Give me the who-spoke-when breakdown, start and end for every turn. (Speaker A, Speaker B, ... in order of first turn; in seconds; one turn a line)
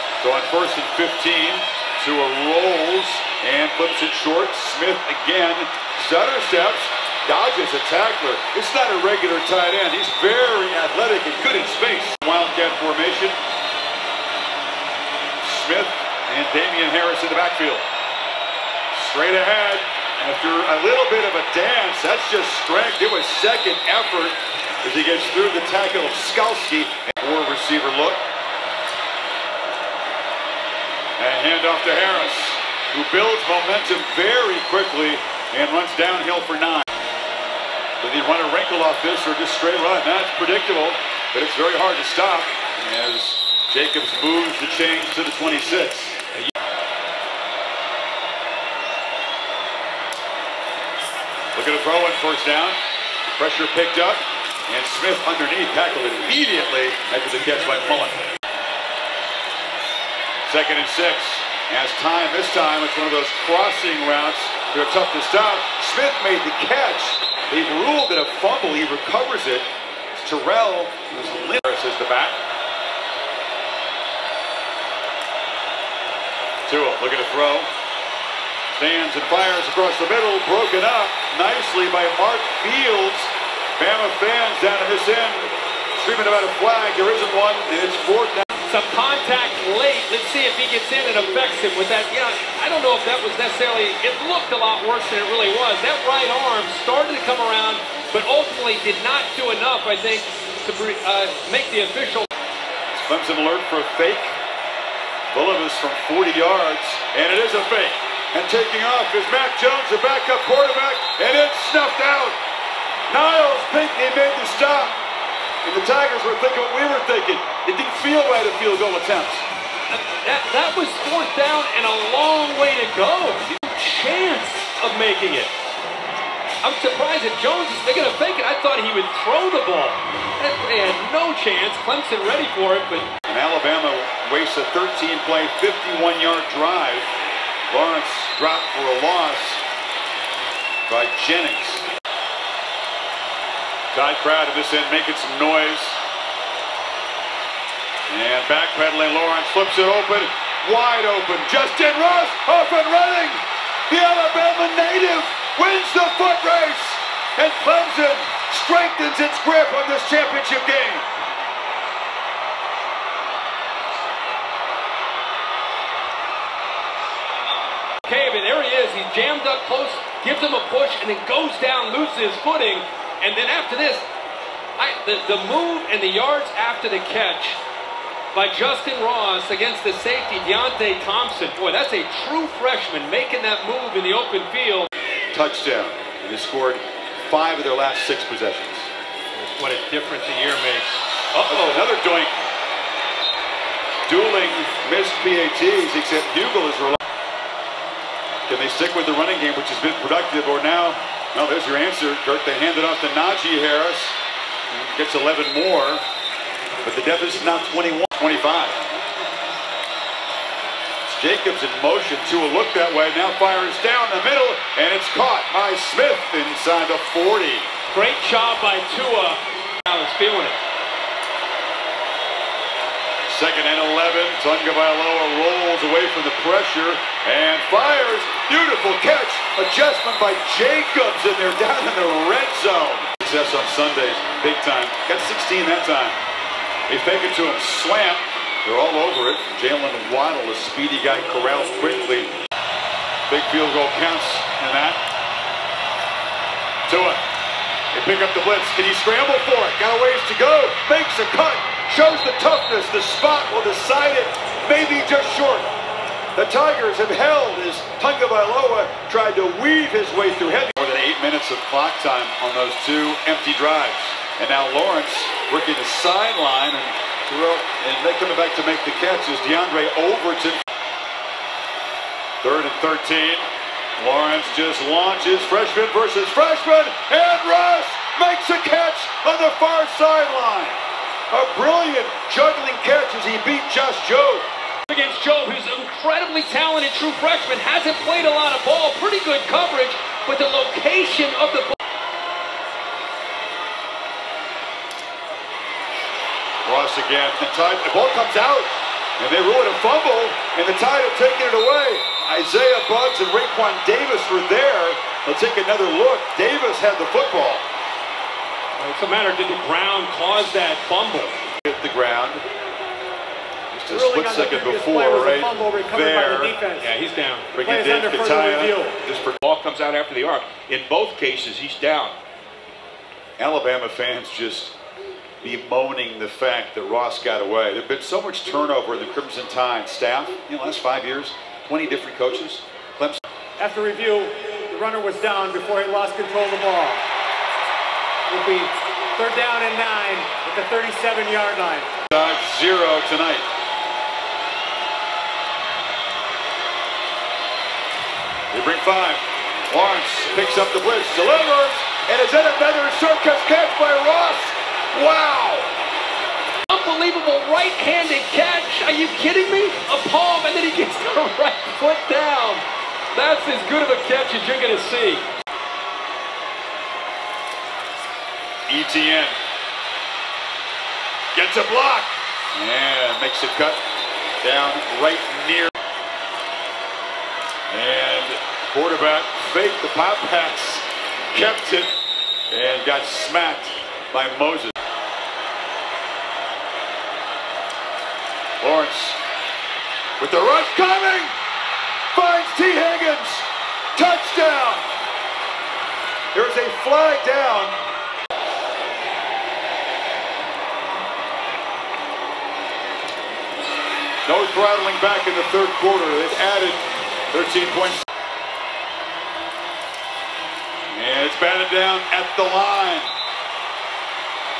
Speaker A: 0.2-13.3
Speaker A: 15.4-17.8
Speaker A: 18.9-28.2
Speaker A: 31.2-36.9
Speaker A: 38.0-46.2
Speaker A: 51.5-52.8
Speaker A: 53.4-58.2
Speaker A: 60.5-72.4
Speaker A: 76.7-77.7
Speaker A: 78.8-88.5
Speaker B: 88.7-102.3
Speaker A: 102.9-104.4
Speaker A: 105.3-112.4
Speaker A: 113.1-115.0
Speaker A: 115.6-119.5
Speaker B: 119.9-125.5
Speaker B: 126.6-133.1
Speaker A: 133.3-137.1
Speaker A: 137.7-139.6
Speaker A: 140.9-141.8
Speaker A: 143.9-146.0
Speaker A: 148.1-161.1
Speaker B: 168.1-174.0
Speaker B: 174.8-177.6
Speaker B: 178.3-184.9
Speaker A: 185.3-188.9
Speaker B: 189.3-191.8
Speaker A: 191.5-192.4
Speaker A: 194.1-197.0
Speaker A: 198.5-204.2
Speaker A: 204.7-206.0
Speaker A: 206.8-208.8
Speaker A: 211.0-217.7
Speaker B: 217.9-220.6
Speaker A: 223.3-236.2
Speaker A: 236.9-242.3
Speaker A: 243.3-245.0
Speaker A: 246.9-247.2
Speaker A: 247.9-255.7
Speaker A: 256.4-270.6
Speaker A: 272.4-273.5
Speaker A: 274.0-280.8
Speaker A: 281.3-284.4
Speaker B: 284.9-291.8
Speaker A: 296.6-307.6
Speaker B: 308.8-311.4
Speaker A: 311.6-312.4
Speaker A: 313.7-316.6
Speaker C: 313.9-316.9
Speaker B: 316.8-317.5
Speaker A: 317.5-318.7
Speaker C: 317.6-319.0
Speaker D: 319.0-322.2
Speaker A: 323.4-324.8
Speaker A: 325.4-333.2
Speaker C: 333.6-337.0
Speaker C: 338.3-341.9
Speaker A: 342.1-343.4
Speaker A: 348.5-355.7
Speaker B: 356.7-365.3
Speaker A: 368.7-369.4
Speaker A: 371.3-373.8
Speaker A: 374.4-375.7
Speaker A: 377.7-381.9
Speaker A: 382.5-384.7
Speaker A: 388.6-389.2
Speaker A: 390.2-391.3
Speaker A: 392.1-394.8
Speaker A: 396.3-397.8
Speaker A: 404.2-408.0
Speaker A: 410.9-413.1